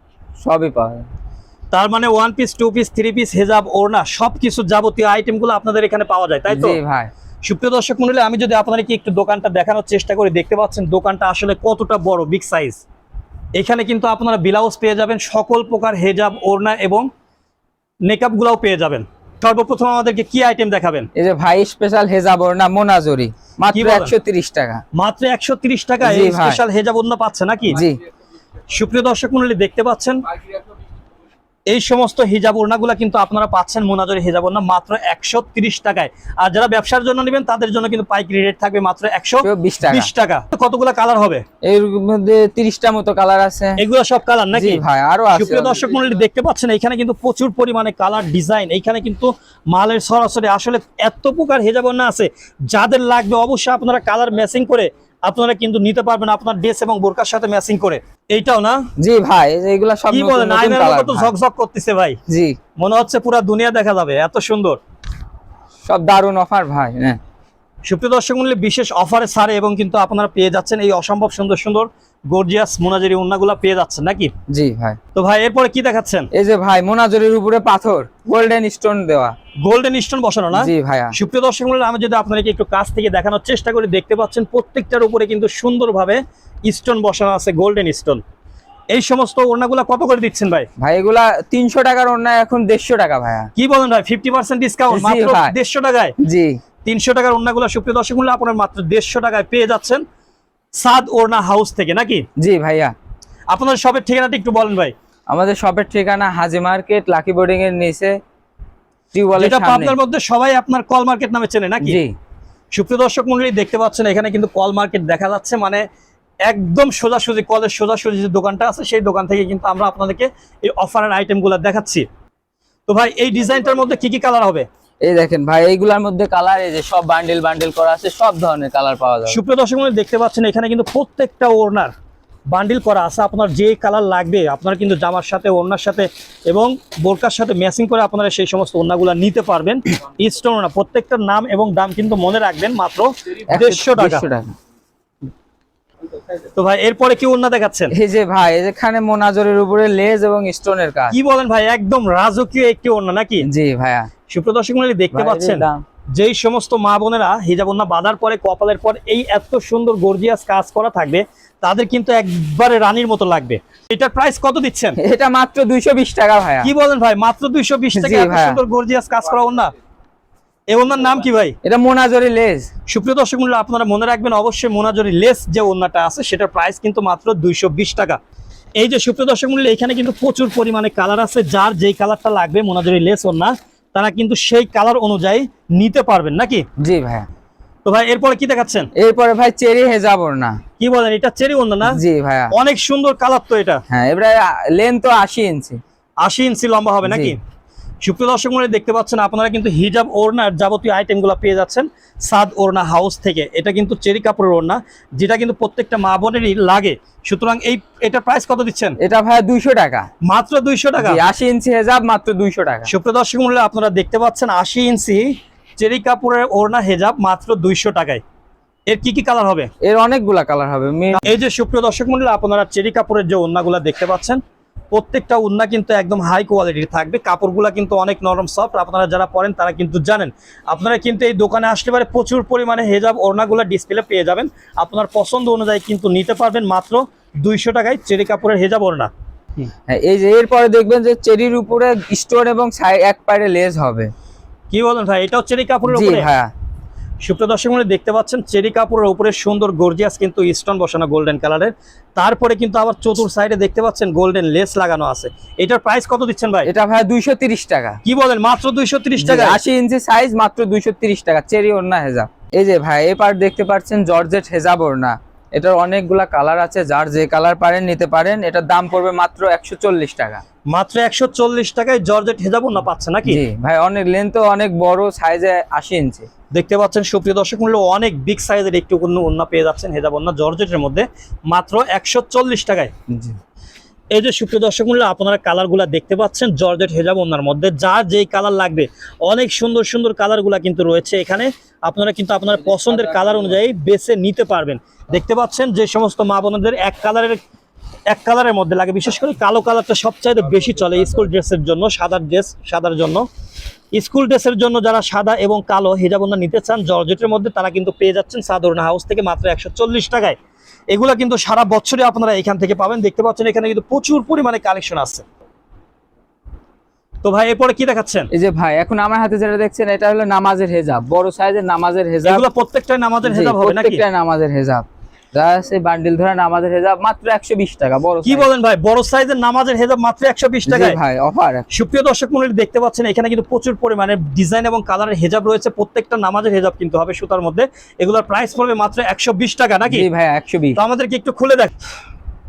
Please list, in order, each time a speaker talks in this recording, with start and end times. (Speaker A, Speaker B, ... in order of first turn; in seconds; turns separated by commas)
Speaker A: 0.4-1.1, Speaker B: 1.7-6.8, Speaker A: 6.5-7.1, Speaker B: 7.4-12.8, Speaker B: 13.6-17.1, Speaker B: 18.1-21.1, Speaker A: 21.1-24.8, Speaker B: 23.7-24.1, Speaker B: 24.9-27.8, Speaker A: 26.0-26.6, Speaker A: 27.7-28.0, Speaker B: 28.7-30.2, Speaker B: 31.7-41.4, Speaker A: 39.4-40.1, Speaker A: 41.6-43.8, Speaker B: 43.8-44.8, Speaker A: 44.5-45.8, Speaker B: 45.3-58.8, Speaker A: 59.0-61.3, Speaker B: 60.1-62.2, Speaker A: 62.3-62.6, Speaker B: 62.8-64.8, Speaker A: 65.8-67.2, Speaker B: 67.8-74.3, Speaker A: 74.5-75.0, Speaker B: 75.1-76.3, Speaker A: 76.3-79.3, Speaker B: 79.6-88.2, Speaker A: 80.5-81.1, Speaker B: 88.9-90.7, Speaker A: 90.8-93.5, Speaker B: 93.5-96.1, Speaker A: 94.9-95.5, Speaker A: 96.2-96.6, Speaker B: 96.8-100.0, Speaker B: 100.8-102.2, Speaker A: 102.4-102.9, Speaker B: 103.5-104.9, Speaker A: 105.3-108.2, Speaker A: 109.1-110.0, Speaker B: 109.3-112.0, Speaker A: 111.8-112.1, Speaker B: 112.7-115.8, Speaker B: 116.5-122.0, Speaker B: 122.9-124.7, Speaker A: 125.0-129.4, Speaker B: 129.3-131.9, Speaker B: 132.5-144.2, Speaker A: 143.5-144.6, Speaker B: 146.6-147.9, Speaker A: 147.9-151.2, Speaker B: 151.1-153.4, Speaker A: 153.4-154.1, Speaker B: 154.3-165.0, Speaker A: 155.1-155.8, Speaker A: 165.0-166.7, Speaker B: 166.6-169.7, Speaker A: 167.9-168.6, Speaker B: 170.7-171.6, Speaker A: 171.6-172.7, Speaker B: 172.9-178.2, Speaker B: 178.8-186.6, Speaker A: 186.8-187.3, Speaker B: 187.8-188.9, Speaker A: 188.9-190.6, Speaker B: 190.8-192.0, Speaker A: 191.9-192.5, Speaker B: 192.5-193.8, Speaker A: 193.9-195.8, Speaker B: 196.2-197.4, Speaker A: 197.1-197.3, Speaker B: 198.0-208.9, Speaker A: 209.0-210.1, Speaker B: 210.2-211.2, Speaker A: 211.0-212.9, Speaker B: 212.9-218.2, Speaker B: 218.9-219.7, Speaker A: 219.8-221.2, Speaker B: 221.1-224.4, Speaker B: 224.9-239.7, Speaker A: 239.9-244.1, Speaker B: 244.7-246.3, Speaker A: 245.9-246.5, Speaker B: 247.2-256.7, Speaker A: 256.6-258.0, Speaker B: 258.0-259.6, Speaker A: 259.2-270.4, Speaker B: 270.7-273.4, Speaker A: 273.3-276.3, Speaker B: 276.5-282.9, Speaker A: 283.1-283.4, Speaker B: 284.1-297.4, Speaker B: 298.1-303.2, Speaker B: 303.9-310.4, Speaker B: 310.9-315.2, Speaker B: 317.2-318.3, Speaker A: 318.3-322.4, Speaker B: 322.2-324.0, Speaker A: 323.2-328.5, Speaker B: 328.2-331.0, Speaker A: 330.7-331.6, Speaker B: 331.7-340.1, Speaker A: 339.9-340.8, Speaker B: 340.8-341.7